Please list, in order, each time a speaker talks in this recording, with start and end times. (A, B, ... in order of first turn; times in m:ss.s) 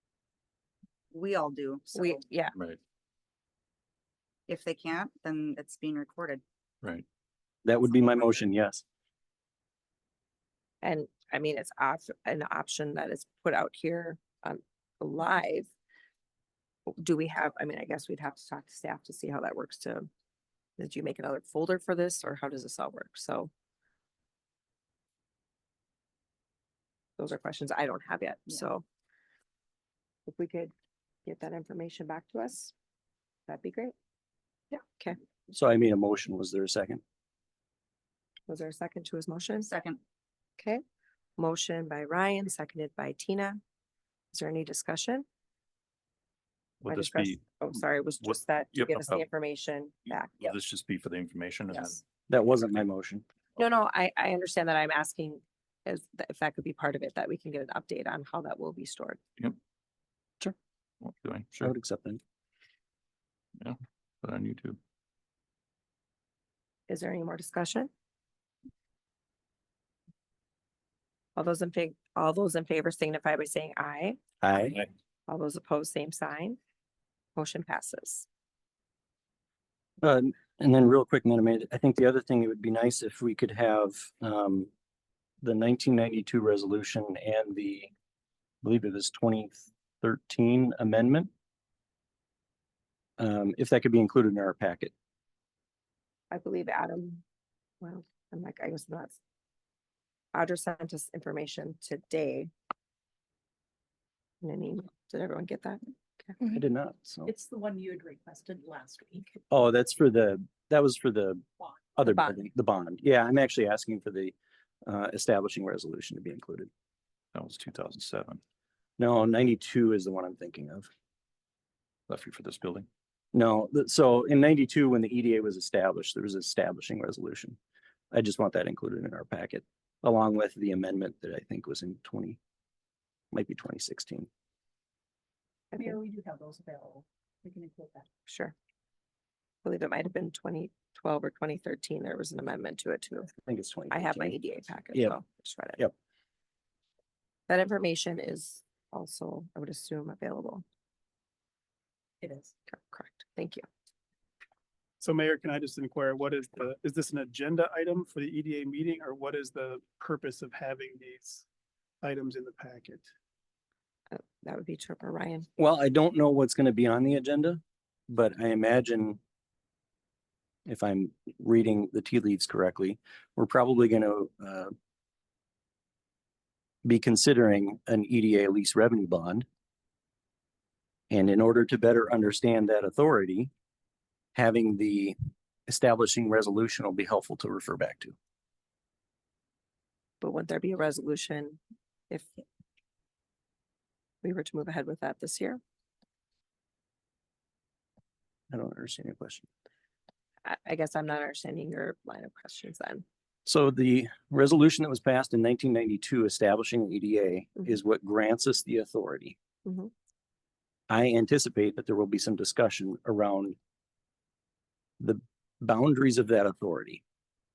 0:01.1-0:02.2 A
0:01.9-0:02.6 B
0:02.5-0:02.8 C
0:04.5-0:06.4 A
0:07.6-0:08.8 D
0:10.8-0:15.7 B
0:16.9-0:20.1 B
0:20.8-0:23.5 B
0:27.2-0:28.8 B
0:30.3-0:30.7 B
0:31.2-0:32.7 B
0:33.5-0:33.9 B
0:34.8-0:35.2 B
0:35.5-0:37.0 D
0:38.5-0:39.7 B
0:39.6-0:40.0 A
0:41.4-0:43.6 B
0:44.3-0:45.3 B
0:46.8-0:49.2 C
0:46.9-0:50.6 B
0:50.3-0:52.0 C
0:51.7-0:52.0 B
0:52.3-0:53.2 D
0:53.6-0:59.2 B
1:01.0-1:01.7 C
1:01.6-1:02.2 D
1:03.6-1:04.8 C
1:06.9-1:07.9 B
1:11.4-1:14.2 B
1:14.4-1:14.8 D
1:15.3-1:16.6 B
1:17.4-1:18.3 B
1:20.0-1:24.7 D
1:25.4-1:27.9 D
1:28.6-1:31.3 D
1:33.2-1:34.9 D
1:36.3-1:37.2 B
1:37.8-1:39.2 B
1:40.3-1:42.5 B
1:44.4-1:46.4 B
1:46.4-1:47.3 D
1:47.2-1:49.3 E
1:49.5-1:51.4 D
1:52.0-1:56.7 D
1:52.1-1:52.4 B
1:57.3-1:58.4 C
1:59.0-2:00.9 D
2:02.1-2:02.9 C
2:03.3-2:07.6 D
2:08.1-2:12.4 D
2:13.3-2:14.3 D
2:15.7-2:18.1 E
2:18.3-2:18.6 B
2:19.6-2:23.3 B
2:23.5-2:24.4 D
2:23.9-2:25.8 B
2:27.5-2:30.6 B
2:32.2-2:32.5 E
2:32.7-2:33.7 B
2:35.0-2:41.4 F
2:42.0-2:43.1 F
2:44.1-2:45.5 B
2:45.6-2:49.2 D
2:50.7-2:54.7 D
2:56.8-2:59.5 D
3:01.1-3:03.5 D
3:04.4-3:05.2 D
3:05.7-3:08.2 D
3:10.2-3:11.6 B
3:14.2-3:15.6 B
3:18.5-3:19.5 D
3:20.4-3:23.0 B
3:23.5-3:29.4 D
3:29.6-3:29.9 B
3:30.9-3:33.6 D
3:35.0-3:37.0 D